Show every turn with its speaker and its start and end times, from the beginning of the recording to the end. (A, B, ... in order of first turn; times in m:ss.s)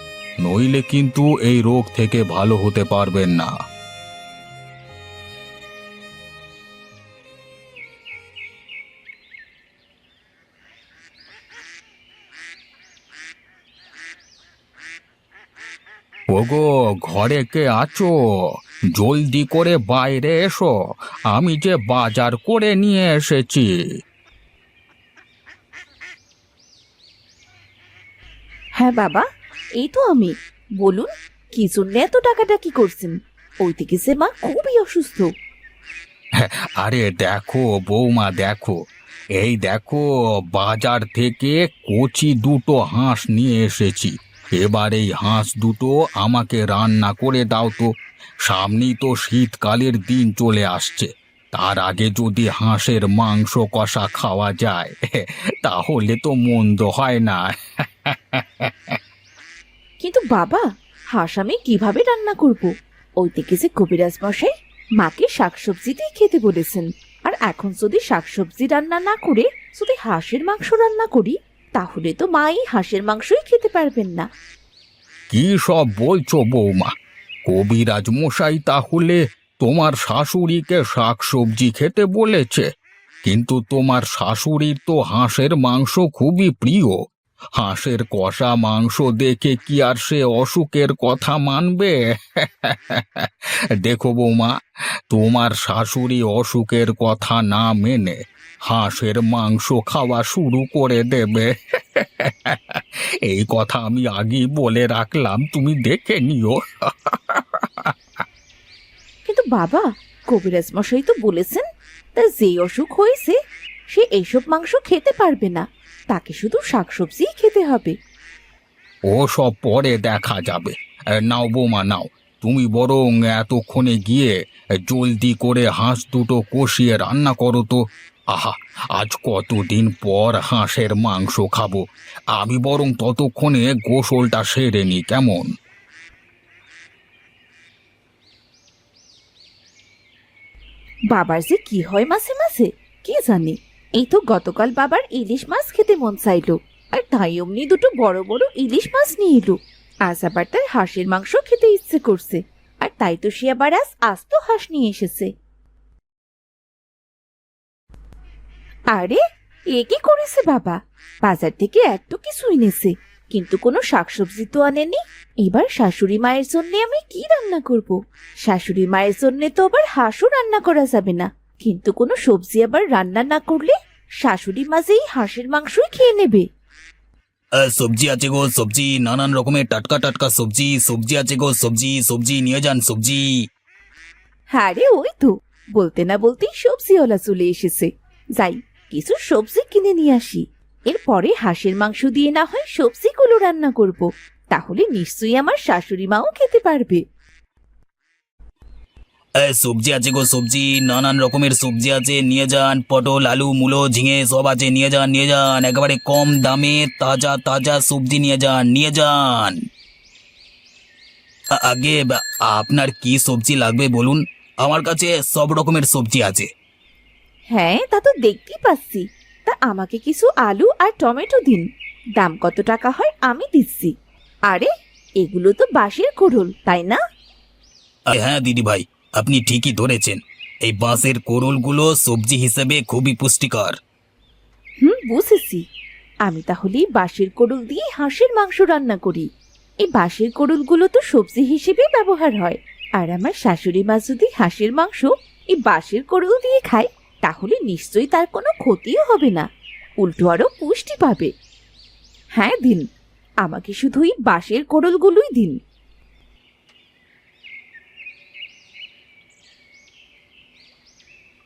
0:00.4-0:03.5 A
0:16.3-0:18.1 A
0:18.9-0:20.8 A
0:21.3-0:23.7 A
0:28.8-0:29.2 B
0:29.8-0:35.3 B
0:36.4-0:38.8 A
0:39.4-0:47.9 A
0:48.4-0:57.5 A
0:58.0-0:58.7 A
1:00.0-1:14.3 B
1:15.3-1:16.9 A
1:17.4-1:22.7 A
1:23.2-1:27.0 A
1:27.6-1:34.5 A
1:35.1-1:47.9 A
1:49.2-1:53.4 B
1:53.9-1:57.9 B
1:59.1-2:07.8 A
2:08.3-2:11.8 A
2:12.3-2:15.5 A
2:21.1-2:35.3 B
2:38.9-2:39.2 B
2:39.8-2:56.4 B
2:57.6-3:03.2 A
3:04.5-3:17.0 B
3:19.4-3:29.5 A
3:31.6-3:36.4 A
3:37.5-3:41.7 B
3:42.2-3:43.9 B
3:45.2-3:47.0 B
3:48.1-3:53.7 A
3:54.8-3:55.6 B
3:56.2-3:59.3 B
3:59.8-4:09.4 B
4:10.0-4:11.3 B
4:12.4-4:12.8 B
4:13.4-4:15.6 B